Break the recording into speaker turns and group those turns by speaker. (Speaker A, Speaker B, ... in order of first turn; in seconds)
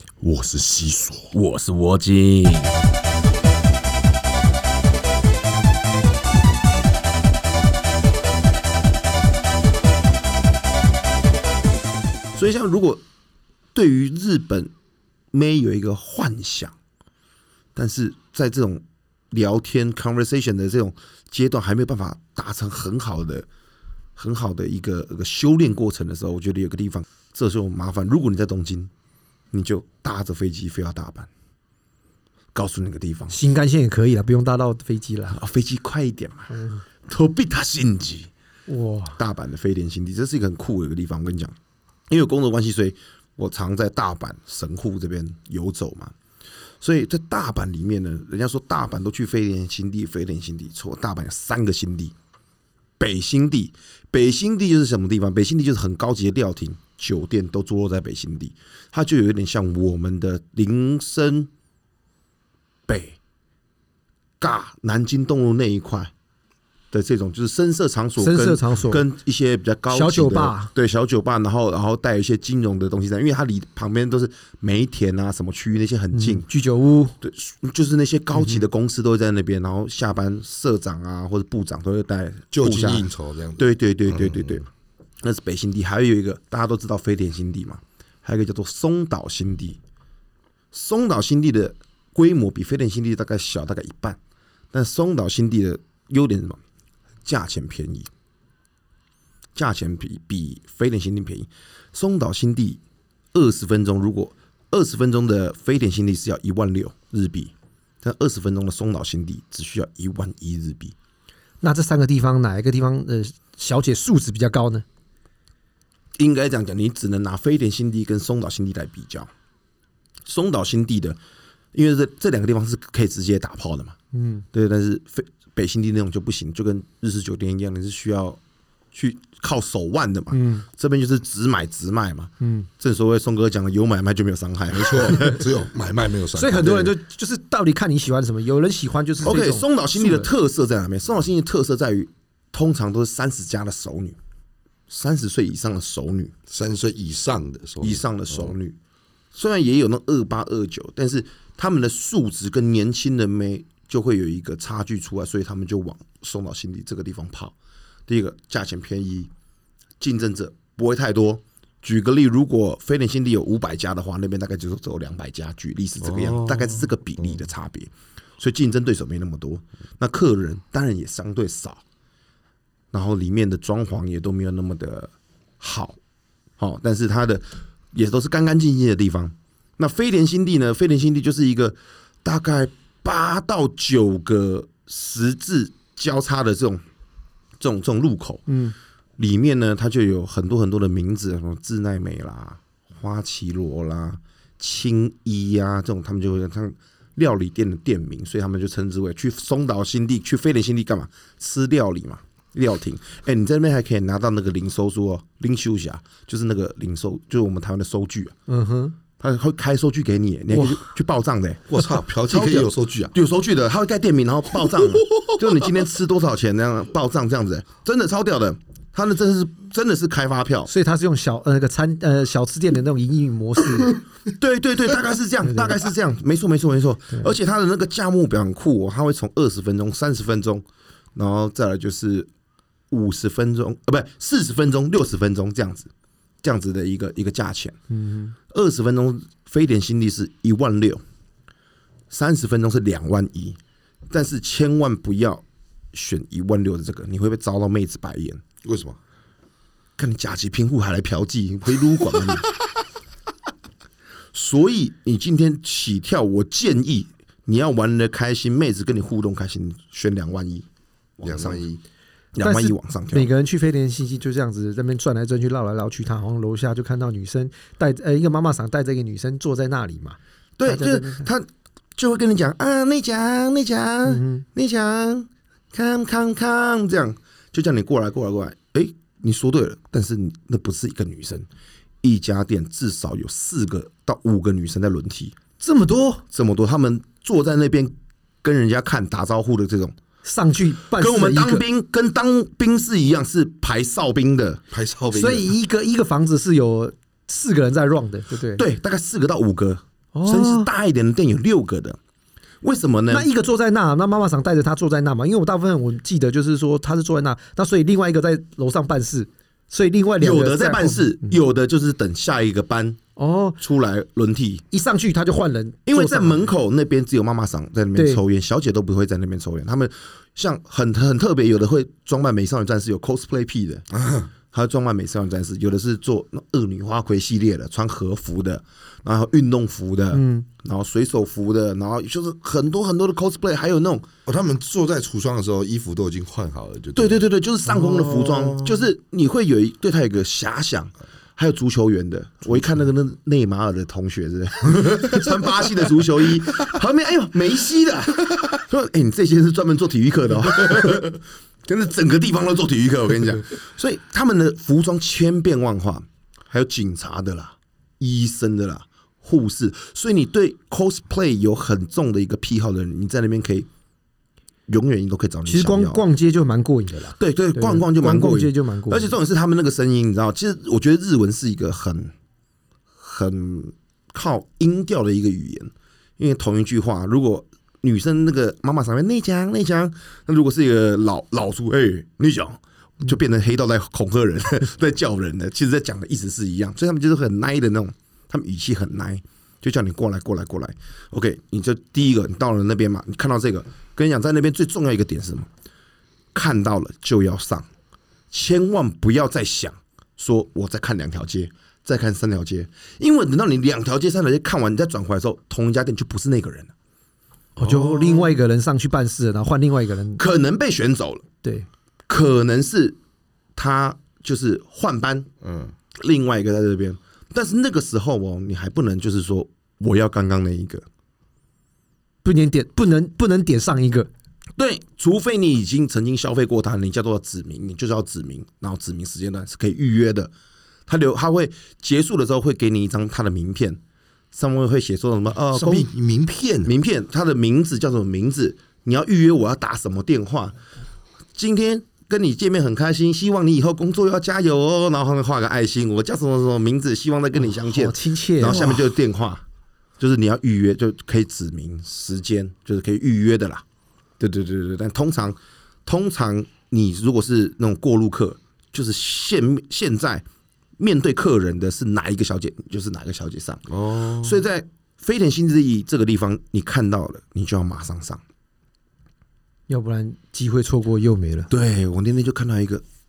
Speaker A: 0.2-1.3, 82.5-84.6, 134.7-136.9, 146.5-148.5, 166.0-167.3, 211.7-213.1, 248.6-249.0, 261.2-261.8, 294.7-295.6, 323.9-324.3, 334.2-338.8, 407.6-408.3, 415.4-415.7, 435.5-436.7, 463.7-464.4
Speaker B: 1.3-2.7, 12.3-13.0, 13.7-14.7, 15.3-16.7, 17.7-23.4, 24.1-28.9, 29.5-31.3, 32.5-33.4, 35.3-36.5, 37.0-38.3, 39.1-41.5, 42.1-46.1, 46.8-52.1, 53.0-61.5, 62.9-63.2, 64.4-66.1, 66.9-76.5, 77.2-84.7, 85.2-89.8, 90.7-94.2, 94.7-96.6, 97.2-98.1, 99.5-102.8, 103.3-110.9, 116.2-119.3, 120.2-121.2, 121.7-124.0, 124.5-128.4, 128.9-135.4, 139.2-144.2, 144.9-146.3, 147.8-148.8, 149.3-157.5, 158.1-159.3, 160.0-171.8, 172.9-176.0, 176.6-186.8, 187.6-188.5, 189.2-208.3, 209.2-211.7, 212.2-220.7, 224.3-230.6, 231.1-232.3, 232.9-235.9, 236.4-237.8, 238.5-241.0, 242.1-243.6, 244.1-248.4, 250.0-252.4, 254.3-260.6, 261.2-261.6, 262.4-263.3, 270.6-281.4, 282.0-285.4, 286.3-289.9, 291.0-294.6, 298.6-302.0, 302.6-303.3, 310.2-313.0, 313.6-314.6, 315.9-323.9, 324.5-334.1, 336.9-363.7, 364.7-366.0, 367.2-372.1, 373.0-395.5, 396.3-397.7, 398.3-406.7, 410.2-411.3, 412.1-413.0, 413.6-415.3, 415.9-420.8, 424.6-430.3, 430.9-433.8, 434.3-435.9, 436.6-440.6, 441.3-449.4, 450.0-453.6, 454.2-460.2, 460.8-468.2, 471.5-472.8
Speaker C: 33.3-35.4, 36.5-36.8, 38.7-39.2, 68.2-69.0, 69.9-70.7, 76.1-77.1, 111.6-114.8, 124.1-124.5, 130.3-130.6, 132.4-132.7, 136.3-140.3, 188.5-188.7, 208.5-208.9, 210.5-210.8, 220.7-224.0, 225.4-225.8, 237.9-238.3, 262.4-271.3, 274.1-274.4, 285.6-286.2, 290.2-291.6, 295.1-298.6, 300.1-300.7, 303.1-311.3, 313.2-313.6, 314.7-316.5, 317.9-318.2, 330.1-330.5, 365.5-369.1, 407.6-410.2, 422.2-424.1, 447.4-448.9, 469.7-471.5